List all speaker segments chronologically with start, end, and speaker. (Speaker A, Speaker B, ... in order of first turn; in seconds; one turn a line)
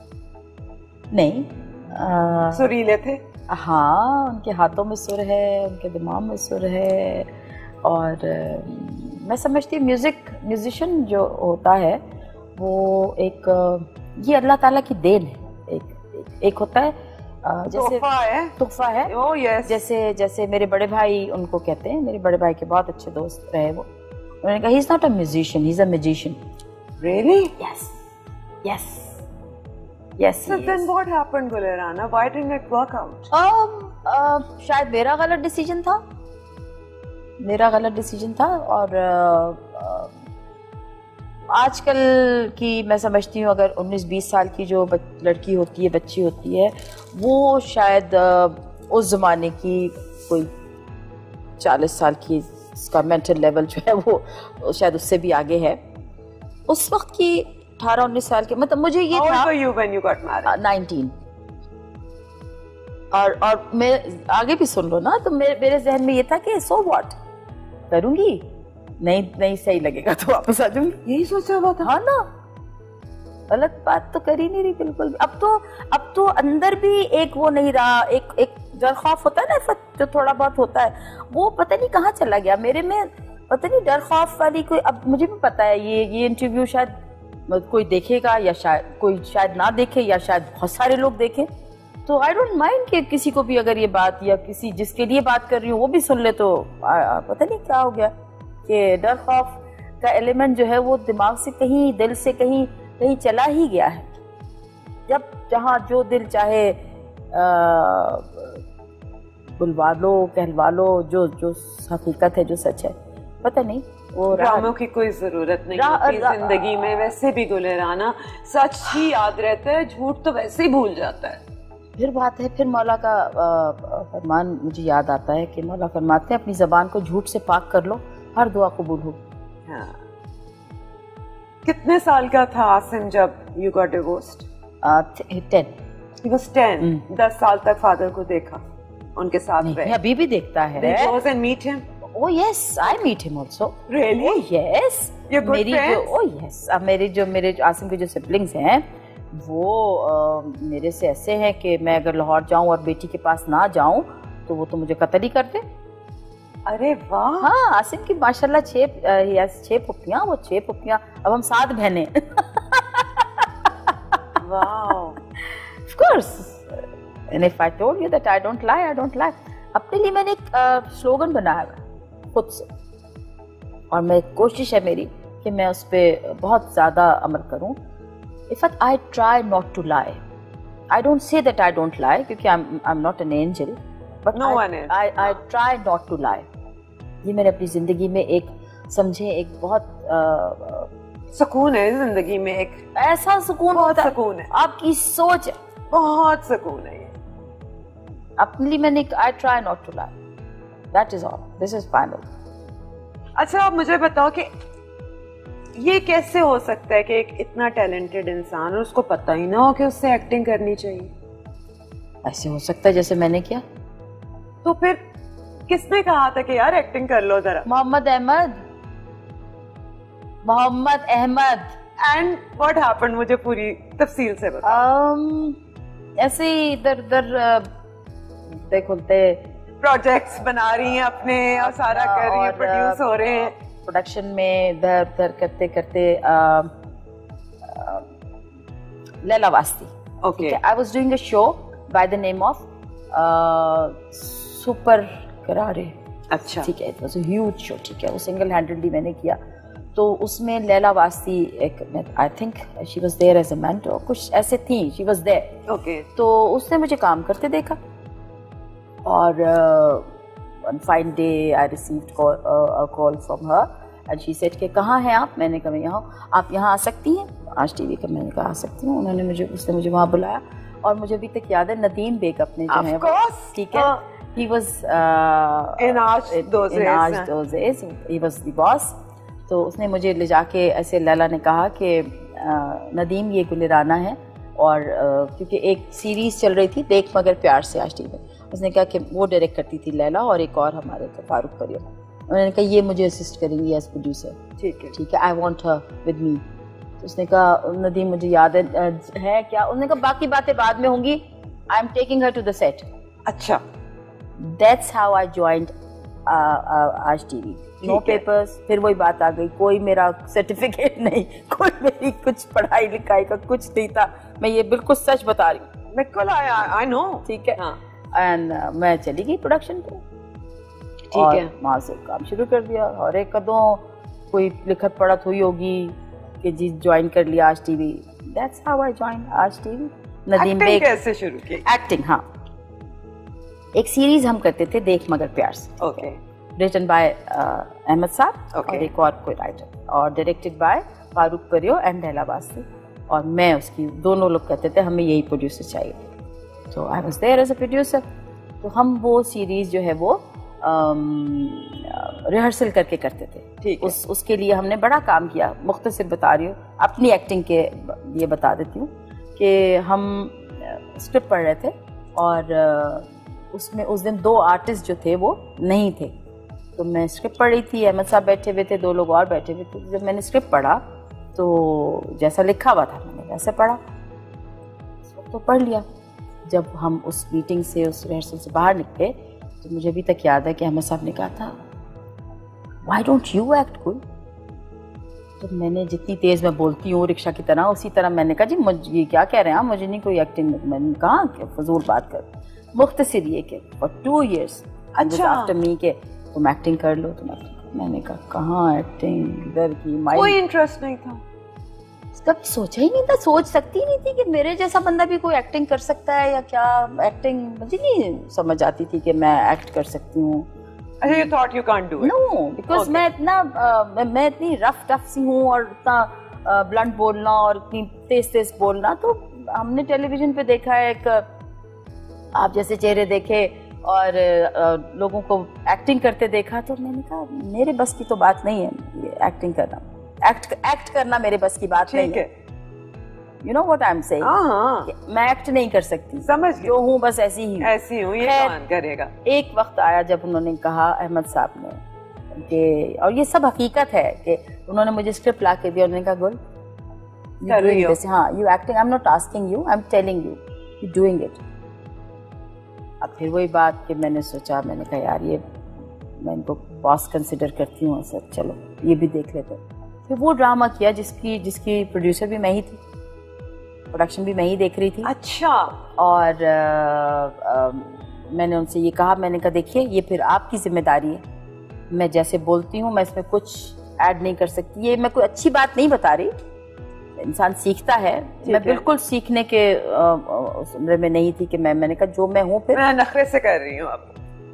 Speaker A: 1.1-2.7
Speaker B: 2.5-3.2
Speaker A: 3.5-7.3
Speaker A: 7.8-12.0
Speaker A: 12.5-18.1
Speaker B: 17.7-18.6
Speaker A: 18.6-19.1
Speaker B: 19.1-19.8
Speaker A: 19.7-23.9
Speaker A: 24.4-26.4
Speaker B: 27.0-27.6
Speaker A: 27.6-28.0
Speaker A: 28.6-29.2
Speaker A: 30.2-30.9
Speaker B: 30.4-33.3
Speaker A: 33.3-36.0
Speaker A: 37.4-40.1
Speaker A: 41.5-50.5
Speaker A: 51.6-55.8
Speaker A: 56.7-59.5
Speaker B: 59.1-60.6
Speaker A: 60.5-61.1
Speaker A: 63.1-67.1
Speaker A: 67.9-68.5
Speaker A: 69.0-71.0
Speaker B: 71.0-71.9
Speaker A: 71.8-72.3
Speaker A: 73.5-86.9
Speaker A: 87.5-91.5
Speaker A: 92.1-98.1
Speaker A: 98.7-104.1
Speaker A: 105.1-106.8
Speaker A: 107.3-108.6
Speaker A: 109.6-114.8
Speaker B: 114.3-121.4
Speaker A: 115.7-117.1
Speaker A: 122.0-129.2
Speaker B: 129.7-130.0
Speaker B: 131.7-134.5
Speaker A: 134.8-135.7
Speaker B: 136.2-138.6
Speaker B: 139.2-140.0
Speaker A: 139.6-141.2
Speaker B: 140.8-141.8
Speaker A: 142.1-155.6
Speaker B: 143.9-144.4
Speaker B: 145.3-146.1
Speaker B: 156.7-157.5
Speaker A: 157.4-163.9
Speaker B: 164.4-165.2
Speaker A: 165.9-171.8
Speaker A: 172.3-172.7
Speaker A: 173.9-177.8
Speaker A: 178.5-180.2
Speaker A: 180.9-186.5
Speaker B: 184.3-185.0
Speaker A: 187.2-190.9
Speaker B: 191.3-192.8
Speaker A: 192.9-195.6
Speaker B: 193.7-194.5
Speaker B: 195.9-197.1
Speaker A: 198.4-200.1
Speaker A: 200.9-202.2
Speaker B: 203.4-204.5
Speaker B: 205.8-211.1
Speaker A: 212.2-213.6
Speaker B: 214.6-215.0
Speaker B: 215.7-217.7
Speaker A: 217.7-218.6
Speaker A: 220.4-221.7
Speaker B: 222.0-224.8
Speaker A: 224.6-225.6
Speaker A: 226.2-227.7
Speaker A: 228.5-229.4
Speaker B: 229.8-233.5
Speaker A: 231.6-233.1
Speaker A: 233.8-236.7
Speaker A: 237.7-238.0
Speaker A: 239.2-245.9
Speaker B: 240.2-240.6
Speaker B: 246.3-246.7
Speaker A: 246.6-249.4
Speaker A: 249.9-255.6
Speaker B: 255.7-256.1
Speaker A: 256.1-257.8
Speaker A: 259.0-260.0
Speaker A: 260.6-278.9
Speaker B: 272.7-274.0
Speaker B: 275.8-277.3
Speaker A: 279.5-294.4
Speaker B: 294.6-294.9
Speaker A: 294.9-296.4
Speaker A: 297.0-302.9
Speaker B: 303.3-303.6
Speaker A: 304.4-305.7
Speaker A: 306.3-315.6
Speaker B: 307.8-308.2
Speaker B: 315.9-317.8
Speaker A: 317.2-317.6
Speaker A: 318.1-320.0
Speaker B: 321.1-321.5
Speaker A: 321.1-330.9
Speaker B: 330.4-331.6
Speaker A: 331.6-332.2
Speaker A: 333.7-336.0
Speaker B: 335.8-336.2
Speaker A: 336.6-346.0
Speaker B: 338.5-338.9
Speaker A: 346.7-348.0
Speaker A: 348.6-366.1
Speaker B: 353.6-353.9
Speaker A: 366.8-370.8
Speaker A: 371.3-373.8
Speaker A: 375.1-375.8
Speaker A: 376.5-381.5
Speaker A: 382.8-384.0
Speaker A: 385.4-400.4
Speaker B: 394.9-395.5
Speaker B: 400.1-401.2
Speaker A: 402.1-410.5
Speaker B: 411.0-412.1
Speaker A: 411.1-411.3
Speaker A: 412.0-421.2
Speaker B: 412.7-413.0
Speaker A: 422.3-432.2
Speaker B: 431.9-432.3
Speaker A: 433.4-434.3
Speaker B: 434.2-434.9
Speaker A: 434.9-438.6
Speaker B: 436.2-436.8
Speaker B: 437.6-439.1
Speaker A: 439.2-441.8
Speaker A: 442.3-446.4
Speaker A: 447.4-451.4
Speaker B: 447.4-448.0
Speaker A: 453.0-455.4
Speaker A: 456.2-462.8
Speaker A: 463.9-465.1
Speaker B: 465.0-465.8
Speaker A: 466.0-471.2
Speaker A: 471.9-476.3
Speaker A: 477.2-482.8
Speaker B: 478.4-478.8
Speaker B: 482.7-484.1